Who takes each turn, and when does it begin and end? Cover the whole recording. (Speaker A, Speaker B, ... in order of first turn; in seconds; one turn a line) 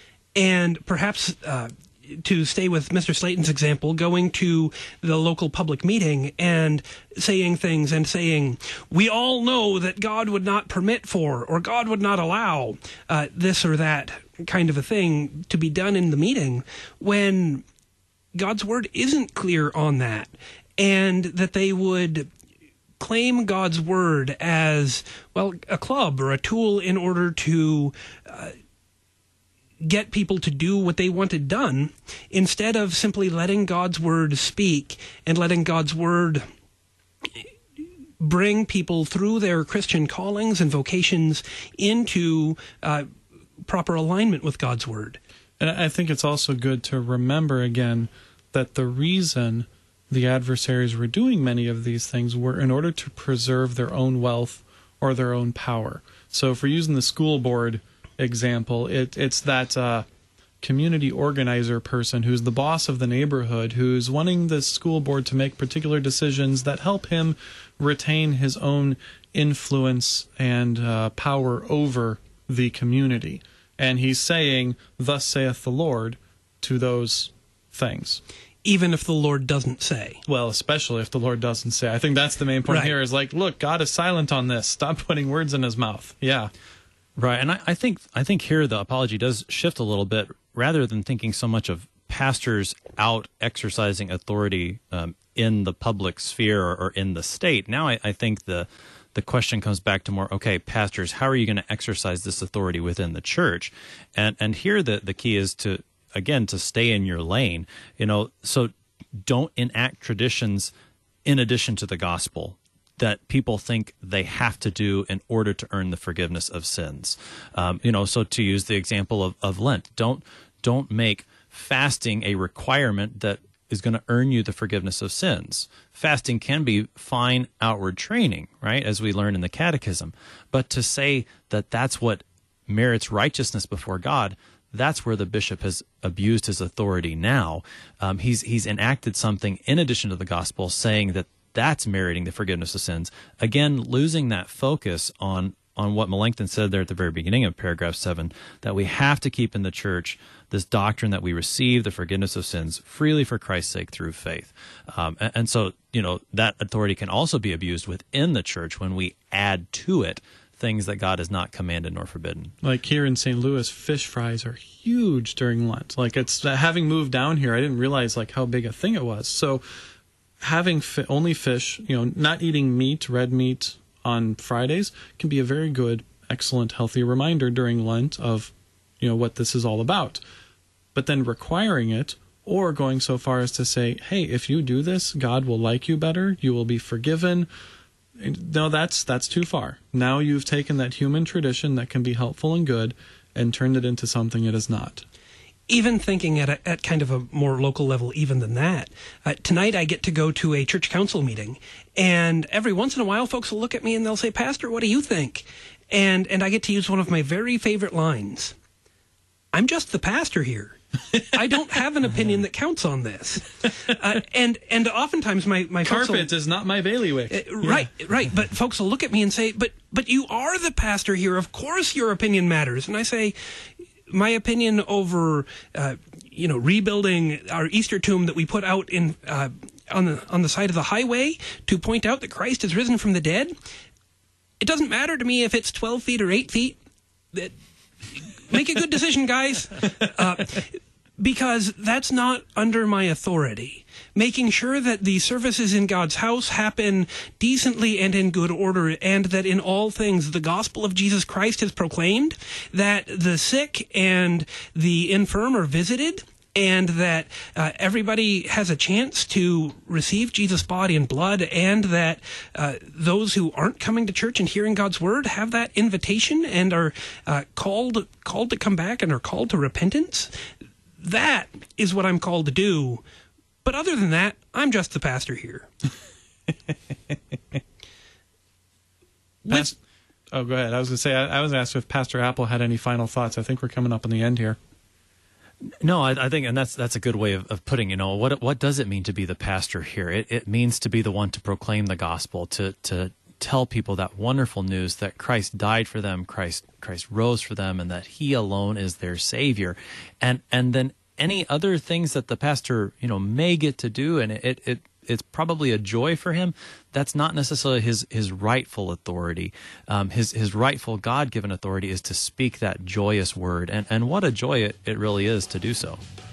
Speaker A: 0.3-17.6
Speaker A: 18.3-22.3
Speaker A: 23.0-28.6
Speaker A: 29.8-36.5
Speaker A: 38.2-43.1
Speaker A: 43.7-45.2
Speaker B: 45.6-60.0
Speaker B: 60.6-78.2
Speaker A: 78.6-80.2
Speaker B: 80.3-86.5
Speaker A: 82.7-82.9
Speaker C: 87.2-108.7
Speaker C: 109.3-110.7
Speaker C: 111.2-162.5
Speaker B: 162.6-169.6
Speaker B: 170.4-180.2
Speaker B: 180.9-187.5
Speaker B: 188.2-195.1
Speaker A: 195.7-208.6
Speaker A: 209.5-216.3
Speaker B: 215.8-217.9
Speaker A: 217.3-223.3
Speaker A: 224.1-233.6
Speaker A: 234.6-236.8
Speaker A: 238.5-270.3
Speaker A: 271.0-273.0
Speaker A: 273.6-275.7
Speaker B: 279.5-279.8
Speaker B: 280.3-284.6
Speaker C: 285.6-316.0